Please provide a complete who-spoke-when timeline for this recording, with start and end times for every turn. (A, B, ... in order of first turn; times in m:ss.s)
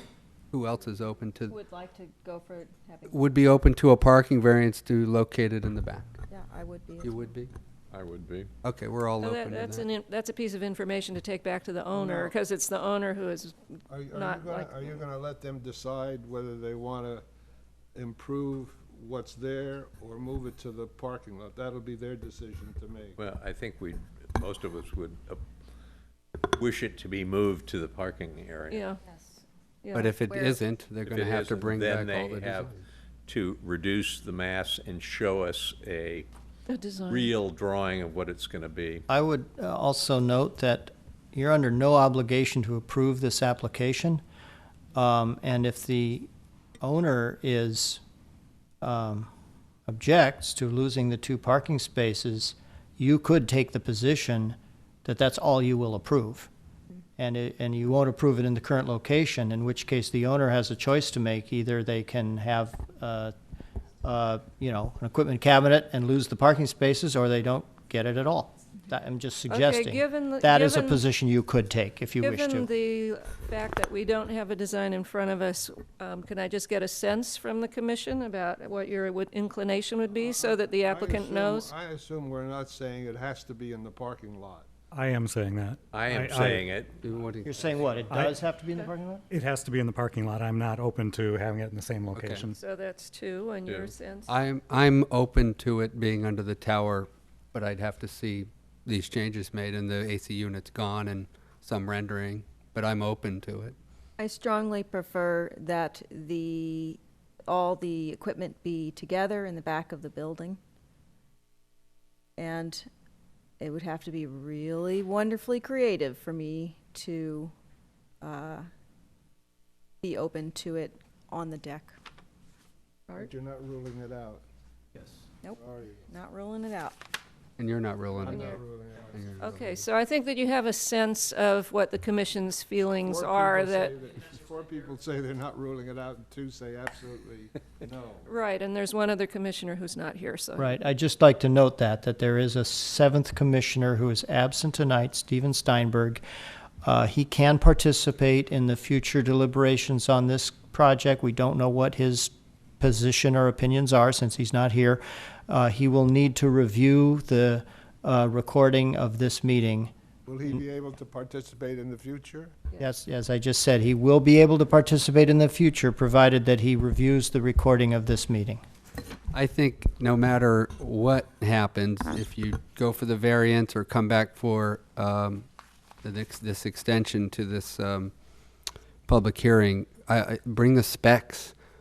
0:00.5-0:01.6 A
0:01.4-0:03.2 B
0:03.1-0:06.1 A
0:06.3-0:07.2 B
0:07.0-0:07.5 A
0:07.9-0:08.5 C
0:08.6-0:09.9 A
0:09.2-0:15.0 D
0:11.9-0:12.3 B
0:13.9-0:17.2 E
0:17.9-0:23.2 E
0:23.2-0:25.4 C
0:26.5-0:28.9 C
0:28.7-0:29.0 D
0:29.8-0:30.1 D
0:29.9-0:32.8 A
0:30.3-0:30.6 B
0:31.0-0:32.7 C
0:33.2-0:36.3 C
0:36.7-0:37.4 D
0:37.0-0:39.0 C
0:39.1-0:44.2 F
0:44.9-0:46.3 F
0:46.8-0:48.0 F
0:48.8-0:49.3 F
0:49.9-0:56.5 F
0:57.2-1:03.3 F
1:04.0-1:12.7 F
1:09.5-1:11.0 D
1:12.2-1:21.7 D
1:20.2-1:24.7 E
1:24.9-1:26.6 G
1:25.9-1:26.9 C
1:26.5-1:28.0 A
1:27.4-1:29.2 F
1:28.1-1:28.4 G
1:29.3-1:32.6 G
1:32.1-1:32.4 A
1:32.6-1:34.3 D
1:33.6-1:33.9 C
1:34.3-1:43.8 A
1:44.2-1:50.6 B
1:52.4-1:52.9 B
1:53.6-1:57.5 B
1:58.2-1:58.7 B
2:00.0-2:02.0 B
2:03.1-2:04.4 E
2:05.4-2:07.0 B
2:05.6-2:06.0 E
2:07.6-2:08.6 A
2:08.2-2:09.4 E
2:09.1-2:09.6 A
2:09.4-2:13.9 D
2:13.0-2:18.3 E
2:18.2-2:20.8 D
2:20.6-2:26.2 F
2:26.8-2:39.9 F
2:40.2-2:42.6 E
2:42.8-2:48.6 F
2:49.3-2:55.4 A
2:56.0-2:58.1 A
2:59.1-3:01.5 A